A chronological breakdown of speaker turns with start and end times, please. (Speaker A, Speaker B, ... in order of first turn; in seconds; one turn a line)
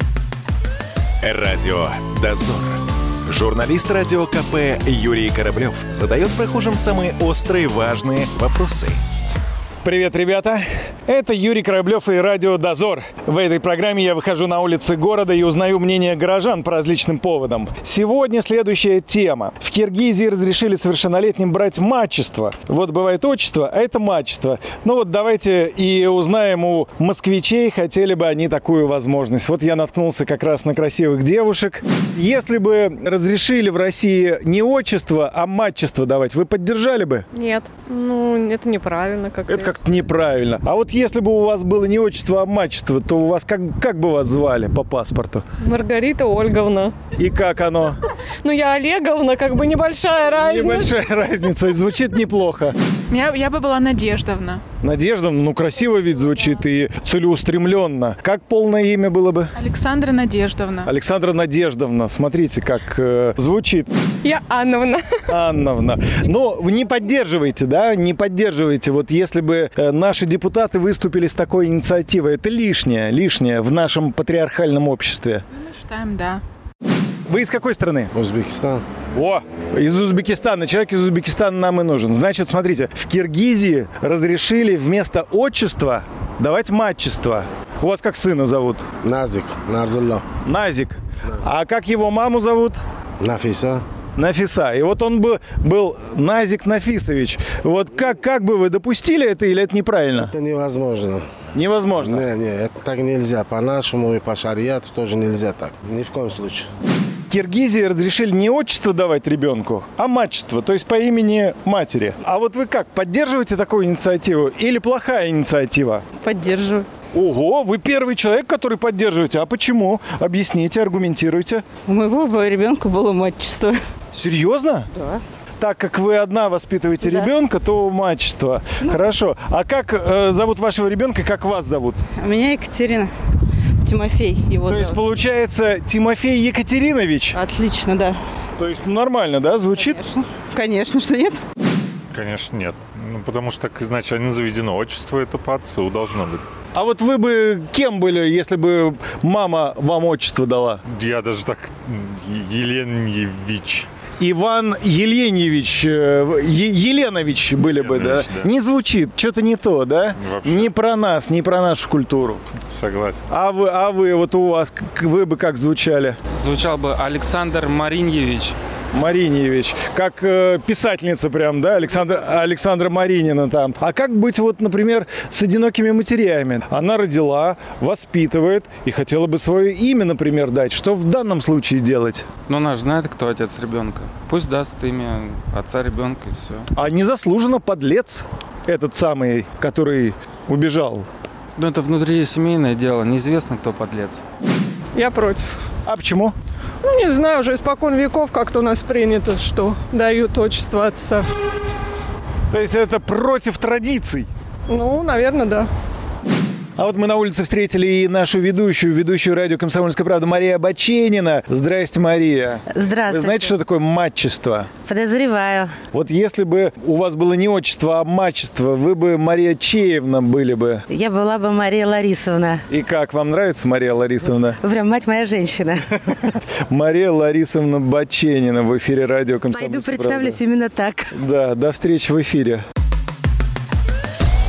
Speaker A: 1.2-9.0
Speaker B: 9.8-37.2
Speaker C: 37.3-39.8
Speaker B: 39.5-45.4
Speaker C: 45.6-47.0
Speaker B: 47.1-48.0
Speaker C: 48.4-50.9
Speaker B: 50.3-52.7
Speaker D: 53.1-54.6
Speaker B: 54.8-59.5
Speaker D: 59.5-60.9
Speaker B: 60.8-63.9
Speaker C: 64.2-65.1
Speaker B: 65.3-75.4
Speaker D: 75.5-76.4
Speaker B: 77.3-78.1
Speaker E: 78.1-78.8
Speaker B: 79.1-88.8
Speaker E: 89.0-90.2
Speaker B: 90.4-92.8
Speaker E: 93.2-93.8
Speaker B: 94.2-100.3
Speaker E: 100.2-101.2
Speaker B: 101.5-102.2
Speaker E: 102.0-106.7
Speaker B: 107.3-116.0
Speaker F: 116.3-116.8
Speaker B: 117.1-121.6
Speaker F: 121.9-123.8
Speaker B: 124.1-124.9
Speaker B: 125.6-132.0
Speaker F: 132.2-133.1
Speaker F: 133.8-134.9
Speaker B: 134.7-137.4
Speaker F: 137.5-138.2
Speaker B: 138.6-140.0
Speaker F: 139.9-141.4
Speaker G: 142.1-146.5
Speaker B: 146.7-150.8
Speaker G: 150.9-153.9
Speaker B: 154.2-162.4
Speaker G: 157.6-158.5
Speaker G: 160.2-160.7
Speaker G: 162.6-163.3
Speaker B: 163.3-166.2
Speaker H: 166.3-168.6
Speaker B: 168.9-182.2
Speaker H: 182.5-186.7
Speaker B: 186.7-191.1
Speaker H: 191.6-194.2
Speaker I: 194.9-195.5
Speaker B: 195.8-196.3
Speaker I: 196.8-201.3
Speaker B: 202.5-204.3
Speaker I: 204.7-205.7
Speaker B: 206.8-214.7
Speaker J: 212.7-213.6
Speaker J: 214.8-215.8
Speaker B: 215.9-220.8
Speaker J: 220.9-222.6
Speaker B: 222.7-224.6
Speaker J: 224.6-226.0
Speaker B: 226.7-230.4
Speaker J: 229.5-231.1
Speaker B: 231.1-232.6